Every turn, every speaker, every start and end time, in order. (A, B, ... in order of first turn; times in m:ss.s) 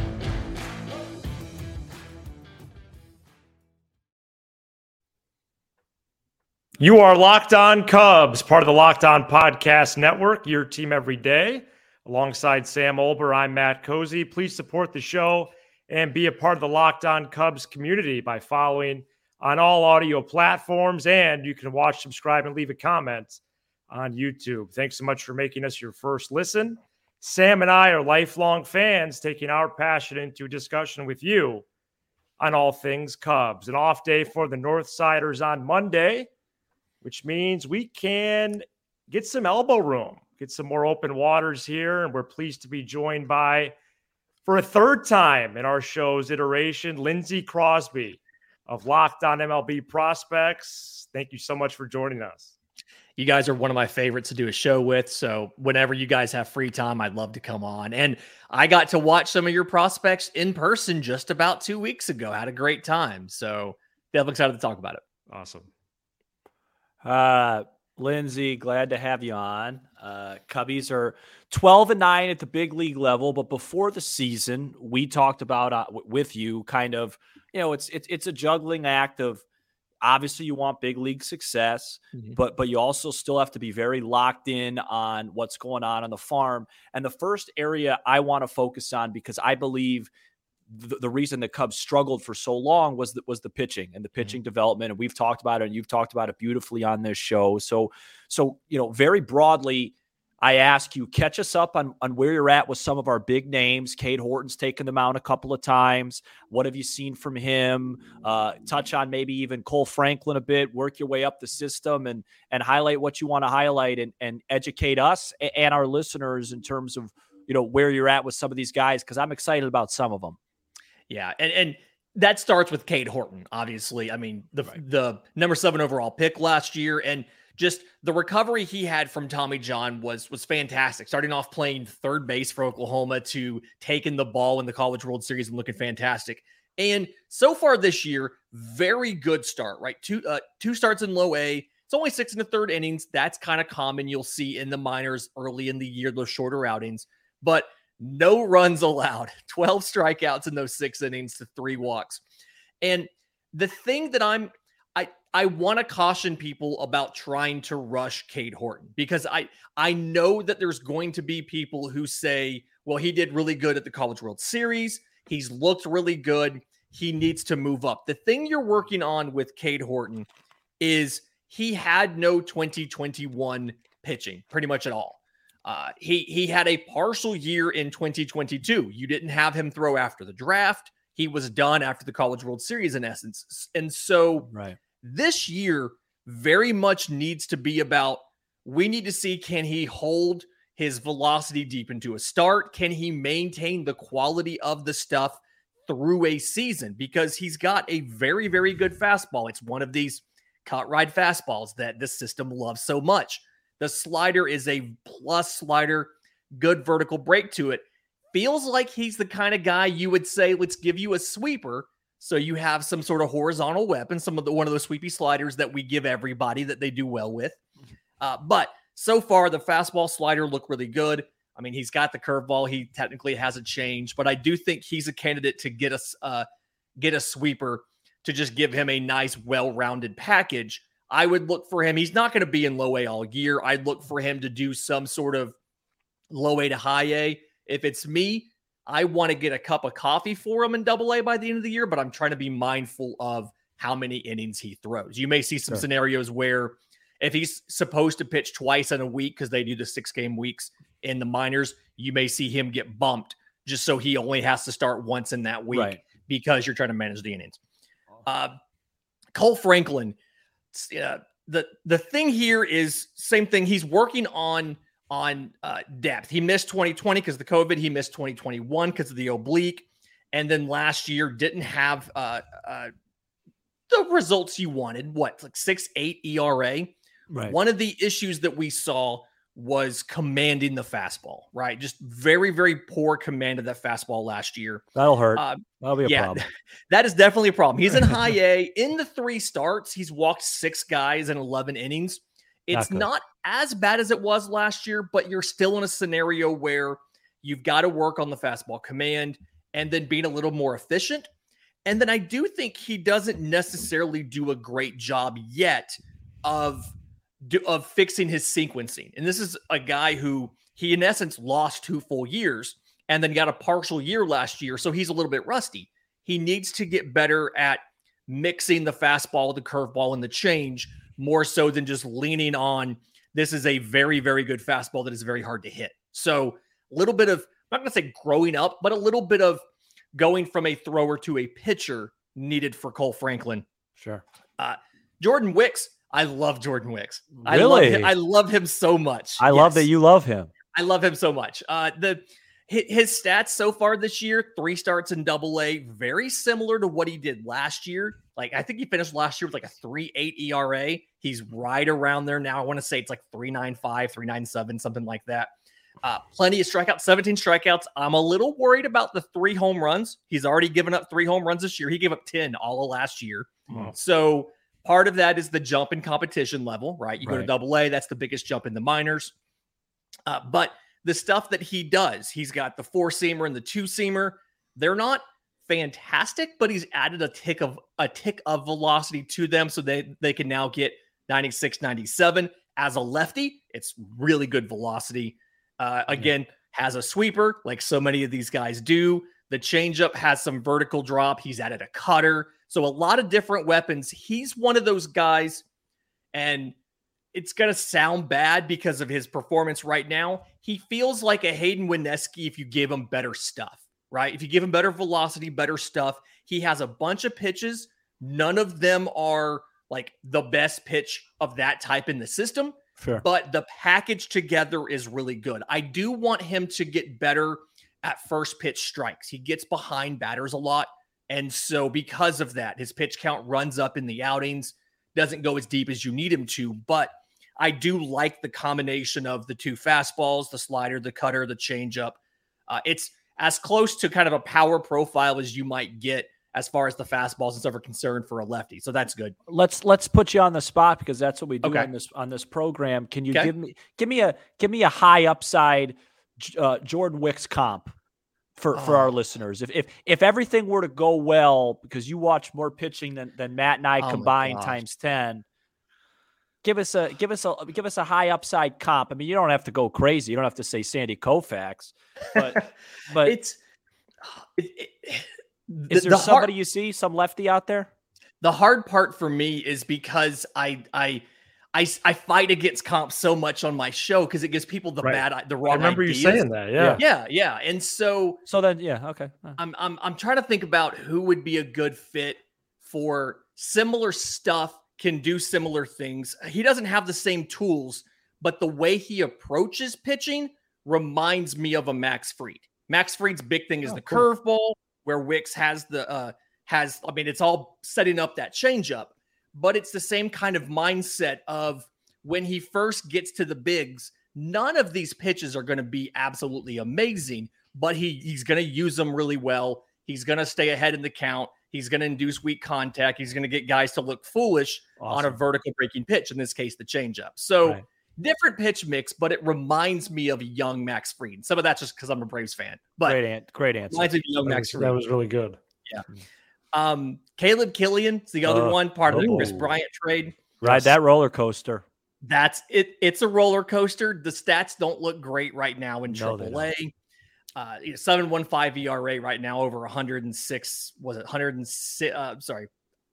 0:06.8-0:31.6 A
0:32.4-0:36.3 A
0:37.0-0:43.8 A
0:44.4-0:52.5 A
0:53.2-1:05.0 B
1:05.3-1:05.7 A
1:07.0-1:19.4 C
1:20.0-1:30.1 C
1:30.7-2:00.4 C
2:01.1-2:32.2 B
2:32.8-2:50.3 B
2:50.8-3:37.6 B
3:04.5-3:04.8 C
3:38.2-3:46.5 B
3:47.0-3:55.6 B
3:56.3-4:17.6 B
4:15.7-4:16.0 C
4:18.2-4:18.6 B
4:19.3-4:20.2 B
4:20.7-4:32.9 B
4:33.9-4:36.9 B
4:37.3-4:37.6 C
4:37.5-5:01.3 B
4:45.0-4:46.4 C
4:52.7-4:53.1 C
5:01.8-5:29.6 B
5:30.1-5:33.7 B
5:34.6-5:39.9 B
5:37.4-5:38.1 C
5:39.4-5:40.5 C
5:40.7-6:09.3 B
6:07.2-6:07.5 C
6:10.3-6:35.6 B
6:36.3-6:36.7 B
6:37.3-7:12.2 B
6:53.0-6:53.2 C
7:12.7-7:19.4 B
7:19.5-7:27.9 C
7:21.6-7:21.9 B
7:28.6-7:35.4 C
7:28.7-7:29.1 B
7:34.0-7:34.8 B
7:36.6-7:43.4 C
7:42.4-7:42.7 B
7:43.2-7:43.6 B
7:44.2-7:46.5 B
7:45.9-7:47.9 C
7:48.4-7:58.4 B
7:55.0-7:57.0 A
7:56.8-7:57.0 C
7:58.5-7:59.6 C
7:59.6-8:43.2 B
8:13.9-8:14.3 A
8:35.0-8:35.4 C
8:43.0-8:44.1 C
8:43.9-8:45.0 B
8:44.4-8:45.6 A
8:46.7-8:50.9 B
8:48.5-8:49.8 C
8:49.1-8:49.5 A
8:50.6-8:51.8 C
8:52.2-8:56.9 B
8:56.1-8:56.7 C
8:57.6-9:02.7 B